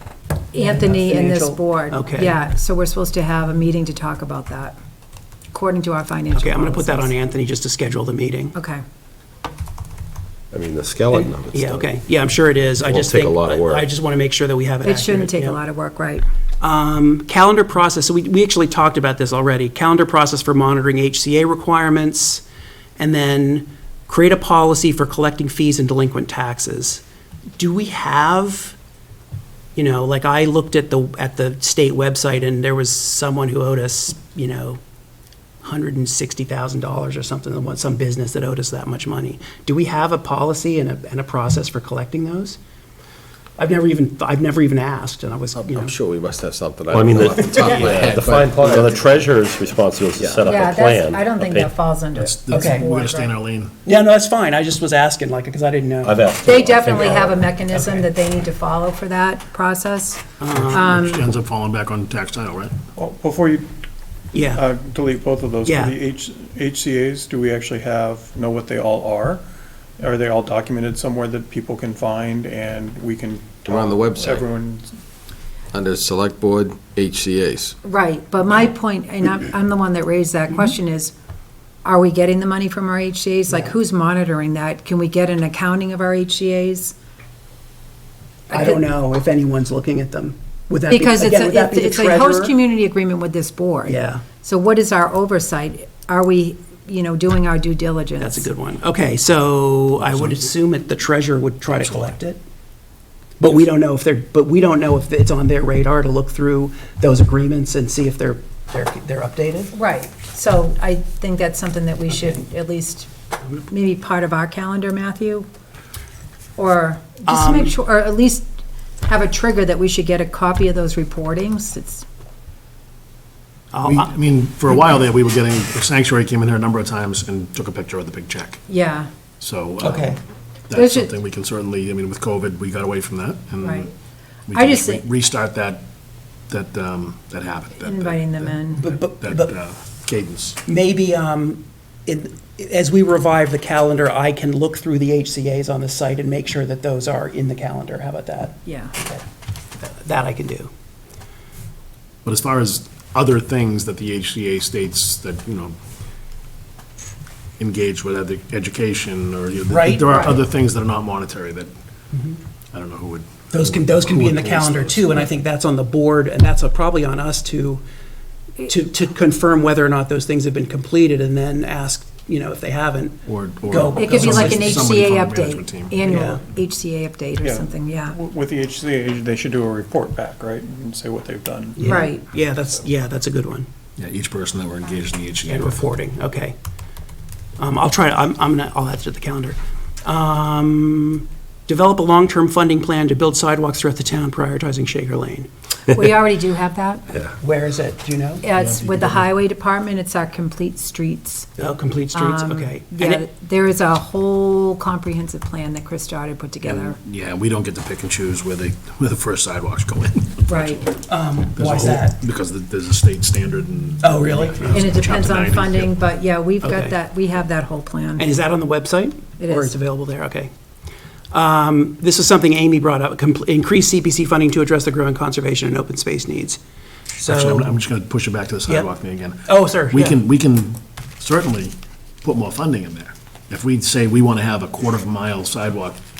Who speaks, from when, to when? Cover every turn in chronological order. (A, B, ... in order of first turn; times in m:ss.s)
0:00.5-0:02.4 A
0:00.5-0:04.8 B
0:05.5-0:07.1 B
0:06.3-0:08.6 A
0:08.6-0:08.8 B
0:10.5-0:11.9 C
0:11.1-0:15.6 A
0:12.8-0:13.9 C
0:14.8-0:16.2 B
0:16.6-0:22.4 A
0:23.0-0:27.0 A
0:27.6-0:28.8 A
0:29.8-0:34.8 A
0:35.6-0:42.6 A
0:43.6-0:45.9 A
0:45.6-0:49.2 D
0:46.9-0:51.7 C
0:50.2-0:50.5 D
0:50.4-0:53.3 B
0:52.2-0:53.7 E
0:52.5-0:52.9 A
0:53.8-0:56.2 A
0:56.0-0:57.4 C
0:56.4-1:01.3 B
0:57.0-0:58.1 A
1:00.4-1:00.9 A
1:00.6-1:02.8 E
1:03.0-1:03.7 F
1:04.3-1:04.6 A
1:04.5-1:09.4 F
1:05.6-1:06.0 A
1:10.0-1:14.9 F
1:13.6-1:14.4 D
1:15.7-1:17.8 D
1:17.8-1:21.1 B
1:21.8-1:27.0 B
1:28.5-1:28.8 B
1:28.5-1:32.5 A
1:30.9-1:38.5 B
1:33.9-1:34.2 A
1:38.2-1:42.4 A
1:43.4-1:49.7 A
1:49.7-1:53.1 B
1:53.7-1:55.5 B
1:56.6-1:58.5 B
1:57.3-1:57.7 A
1:59.0-2:02.1 B
2:03.7-2:04.1 A
2:03.8-2:08.6 E
2:08.7-2:09.1 B
2:09.4-2:10.2 E
2:09.8-2:10.2 A
2:10.7-2:13.9 E
2:10.7-2:11.1 B
2:13.6-2:13.9 B
2:14.5-2:15.8 E
2:14.5-2:15.0 B
2:16.5-2:18.6 E
2:17.8-2:19.0 B
2:18.8-2:19.6 A
2:19.1-2:20.6 E
2:20.7-2:29.2 A
2:28.6-2:28.9 B
2:29.8-2:30.7 A
2:32.2-2:35.8 E
2:37.6-2:41.7 E
2:39.7-2:40.4 A
2:42.7-2:45.3 E
2:43.5-2:47.8 A
2:48.7-2:54.9 A
2:53.3-2:56.0 E
2:54.0-2:58.2 B
2:56.1-2:56.4 A
2:57.4-3:02.0 F
3:01.8-3:03.7 A
3:01.8-3:02.2 B
3:04.0-3:05.8 E
3:05.4-3:06.6 A
3:07.6-3:15.5 A
3:15.9-3:17.0 B
3:17.4-3:18.4 A
3:18.4-3:21.6 B
3:18.6-3:19.2 E
3:21.6-3:23.2 A
3:22.1-3:27.0 B
3:26.7-3:31.0 E
3:30.5-3:30.8 B
3:31.1-3:32.2 A
3:31.6-3:36.0 E
3:34.0-3:34.9 A
3:34.7-3:38.3 B
3:36.6-3:36.9 A
3:38.2-3:40.5 A
3:39.4-3:39.8 B
3:41.3-3:46.6 A
3:47.2-3:47.8 A
3:47.2-3:56.0 E
3:49.5-3:50.2 A